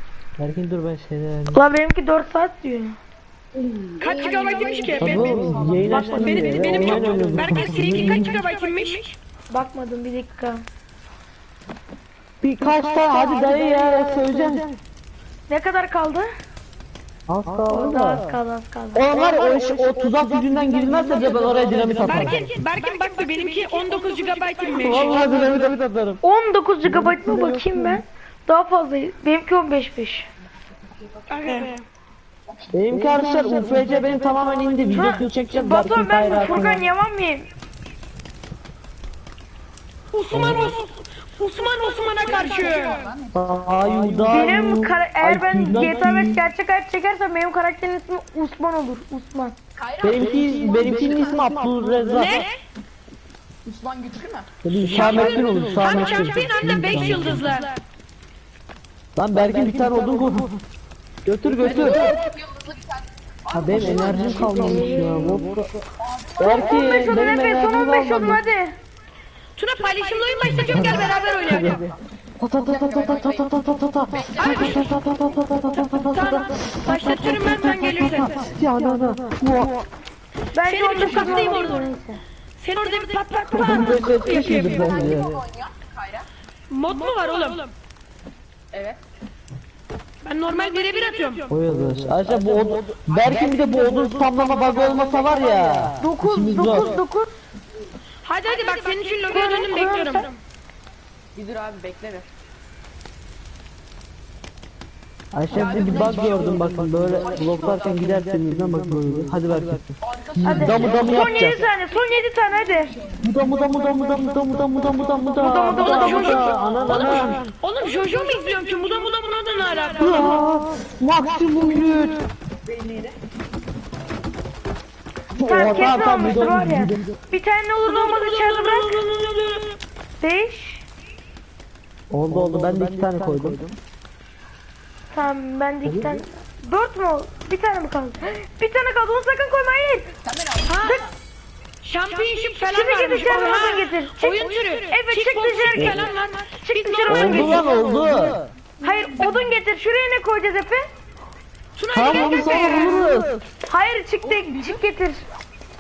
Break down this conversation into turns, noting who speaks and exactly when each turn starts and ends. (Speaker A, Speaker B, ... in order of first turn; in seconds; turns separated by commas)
Speaker A: 0.4-1.6, Speaker B: 1.5-3.0, Speaker C: 3.5-6.9, Speaker D: 4.0-5.4, Speaker A: 5.0-8.4, Speaker B: 5.9-6.9, Speaker D: 6.0-9.2, Speaker B: 9.5-10.6, Speaker A: 12.4-14.7, Speaker B: 15.5-16.3, Speaker A: 17.3-18.3, Speaker B: 17.7-19.1, Speaker A: 18.9-22.4, Speaker C: 19.1-19.9, Speaker C: 20.8-22.5, Speaker D: 22.0-25.4, Speaker A: 24.8-26.2, Speaker C: 24.9-25.3, Speaker B: 26.2-30.3, Speaker A: 26.8-28.0, Speaker C: 30.9-31.7, Speaker D: 31.3-31.8, Speaker C: 32.5-35.0, Speaker A: 32.7-36.9, Speaker B: 34.9-37.5, Speaker D: 40.1-43.1, Speaker A: 40.3-40.7, Speaker C: 42.2-44.5, Speaker A: 43.3-46.5, Speaker B: 44.3-49.6, Speaker C: 49.8-52.3, Speaker A: 50.0-52.5, Speaker D: 52.1-52.6, Speaker C: 53.6-57.2, Speaker A: 54.6-57.5, Speaker D: 54.8-57.8, Speaker A: 59.2-60.5, Speaker A: 61.2-62.2, Speaker C: 61.6-65.4, Speaker D: 61.7-62.0, Speaker A: 63.5-65.7, Speaker B: 63.7-65.4, Speaker C: 66.0-67.2, Speaker A: 66.4-68.4, Speaker B: 66.4-68.8, Speaker D: 69.6-71.8, Speaker A: 70.5-79.9, Speaker C: 71.0-72.0, Speaker C: 72.5-73.6, Speaker C: 74.1-75.0, Speaker D: 74.4-74.8, Speaker D: 75.9-78.5, Speaker B: 80.5-82.2, Speaker D: 80.6-81.9, Speaker D: 82.6-85.0, Speaker A: 83.5-85.4, Speaker C: 83.9-86.3, Speaker D: 86.7-87.7, Speaker C: 88.7-89.0, Speaker D: 90.2-91.5, Speaker A: 91.5-97.0, Speaker C: 93.1-95.9, Speaker B: 96.0-97.3, Speaker D: 98.3-100.4, Speaker B: 99.3-100.3, Speaker C: 101.3-102.3, Speaker A: 105.3-111.6, Speaker C: 105.5-108.1, Speaker C: 110.0-114.4, Speaker B: 110.4-113.0, Speaker A: 113.2-117.4, Speaker B: 115.4-116.5, Speaker D: 115.7-120.3, Speaker C: 116.3-117.3, Speaker A: 120.0-122.2, Speaker C: 121.4-123.2, Speaker A: 125.4-127.1, Speaker B: 125.4-129.0, Speaker D: 127.9-129.3, Speaker A: 129.1-129.7, Speaker B: 130.2-130.8, Speaker A: 132.1-133.8, Speaker B: 135.1-140.2, Speaker A: 135.8-136.2, Speaker C: 140.2-141.2, Speaker D: 140.7-141.0, Speaker D: 141.8-147.6, Speaker B: 142.7-146.1, Speaker A: 145.8-146.1, Speaker B: 146.6-147.7, Speaker A: 147.1-148.4, Speaker C: 147.5-148.5, Speaker B: 148.8-150.9, Speaker C: 149.2-149.6, Speaker D: 151.8-153.3, Speaker A: 151.9-153.4, Speaker B: 153.7-155.2, Speaker C: 154.2-154.8